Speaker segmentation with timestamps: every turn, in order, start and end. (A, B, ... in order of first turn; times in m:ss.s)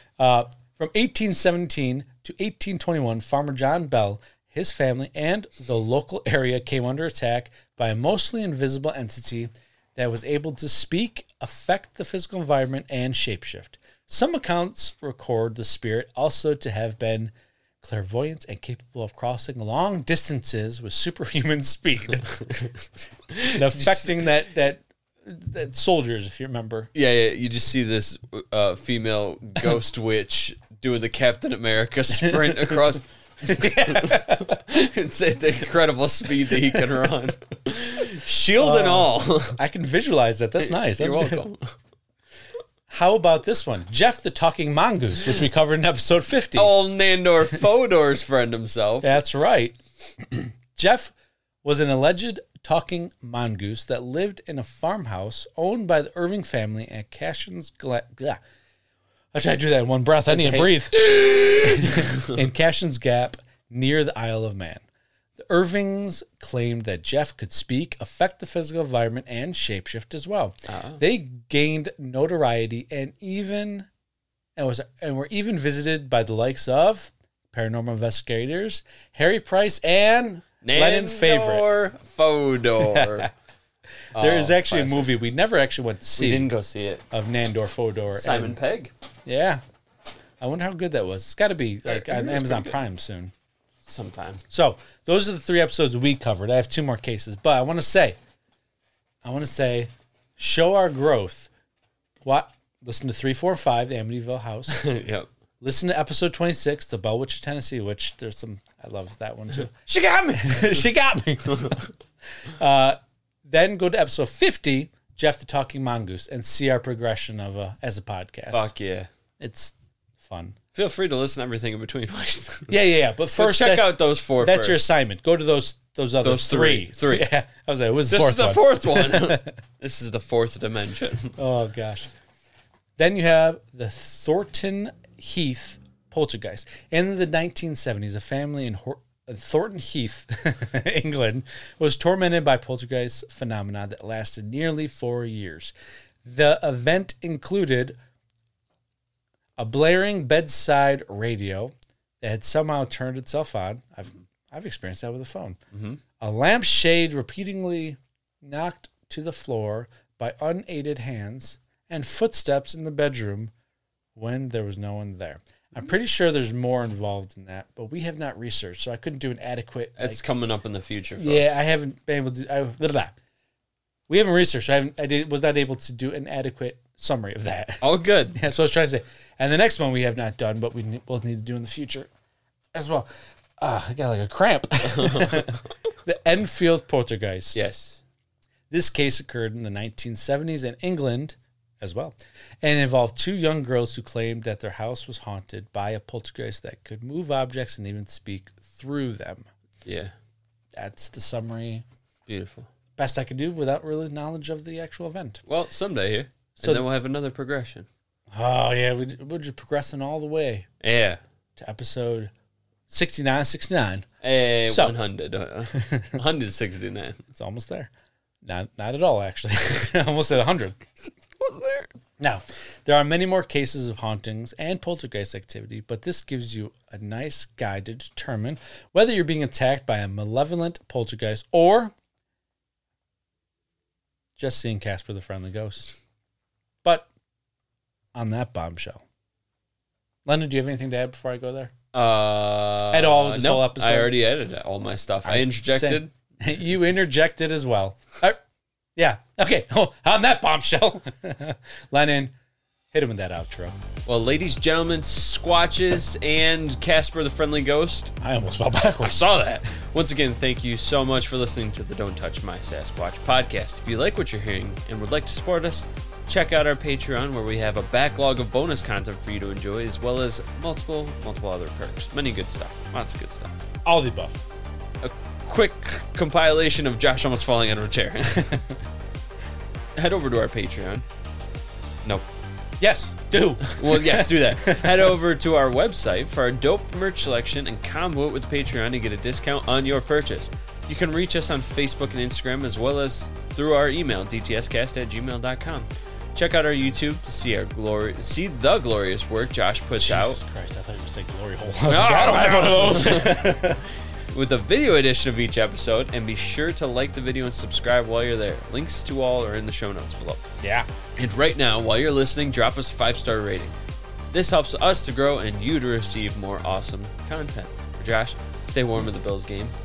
0:00.2-0:22.4 A
0:23.3-0:24.1 B
0:23.5-0:26.9 A
0:26.9-0:39.6 B
0:32.2-0:32.8 A
0:33.4-0:34.6 A
0:38.6-0:41.4 A
0:40.6-0:41.7 B
0:42.9-0:46.7 A
0:46.5-0:49.2 B
0:49.0-0:58.4 A
0:59.3-1:04.8 A
1:00.3-1:02.4 B
1:05.4-1:13.9 A
1:10.7-1:11.0 B
1:14.6-1:21.6 A
1:20.6-1:23.3 B
1:22.8-1:23.3 A
1:24.1-1:25.1 B
1:24.1-1:26.5 A
1:26.2-1:27.0 B
1:27.1-1:28.6 A
1:28.1-1:28.9 B
1:29.2-1:29.6 A
1:30.4-1:33.3 A
1:31.8-1:32.8 B
1:33.8-1:34.4 B
1:34.5-1:38.2 A
1:39.2-1:41.5 A
1:42.2-1:44.8 A
1:44.7-1:45.3 B
1:45.6-1:51.9 A
1:52.4-1:58.7 A
1:58.5-1:59.1 B
1:59.4-2:00.6 A
2:00.7-2:02.8 B
2:02.7-2:09.5 A
2:03.3-2:04.8 B
2:06.2-2:07.2 B
2:08.1-2:11.4 B
2:11.4-2:12.1 A
2:13.0-2:25.7 A
2:26.2-2:28.0 A
2:29.6-2:35.6 A
2:35.7-2:36.0 B
2:36.2-2:43.5 A
2:44.1-2:50.2 A
2:50.0-2:51.6 B
2:51.2-2:53.2 A
2:54.1-2:57.8 A
2:57.8-2:58.4 B
2:58.3-3:02.1 A
3:02.7-3:03.1 A
3:03.6-3:07.6 A
3:04.8-3:05.6 B
3:07.5-3:08.0 B
3:08.7-3:19.5 A
3:19.8-3:20.1 B
3:20.8-3:21.8 A
3:22.3-3:22.7 B
3:23.0-3:25.4 A
3:25.4-3:27.9 B
3:26.6-3:26.8 A
3:28.3-3:30.7 A
3:30.8-3:31.2 B
3:31.6-3:32.3 A
3:32.9-3:34.1 A
3:34.2-3:37.2 B
3:34.6-3:35.0 A
3:35.8-3:36.1 A
3:37.3-3:37.9 A
3:38.4-3:40.8 A
3:41.4-3:41.9 B
3:42.2-3:51.9 A
3:54.4-3:56.0 A
3:58.1-3:59.0 A
4:00.2-4:01.7 A
4:01.9-4:06.1 B
4:02.9-4:04.1 A
4:05.2-4:08.4 A
4:09.0-4:12.3 A
4:12.9-4:13.8 A
4:14.0-4:18.2 B
4:18.2-4:19.2 A
4:19.0-4:33.5 B
4:33.8-4:34.4 A
4:35.0-4:38.6 B
4:38.4-4:38.7 A
4:40.0-4:41.0 B
4:42.8-4:45.1 A
4:43.6-5:00.4 B
5:00.0-5:03.8 A
5:01.9-5:10.4 B
5:10.6-5:10.9 A
5:11.2-5:13.8 B
5:14.3-5:19.7 B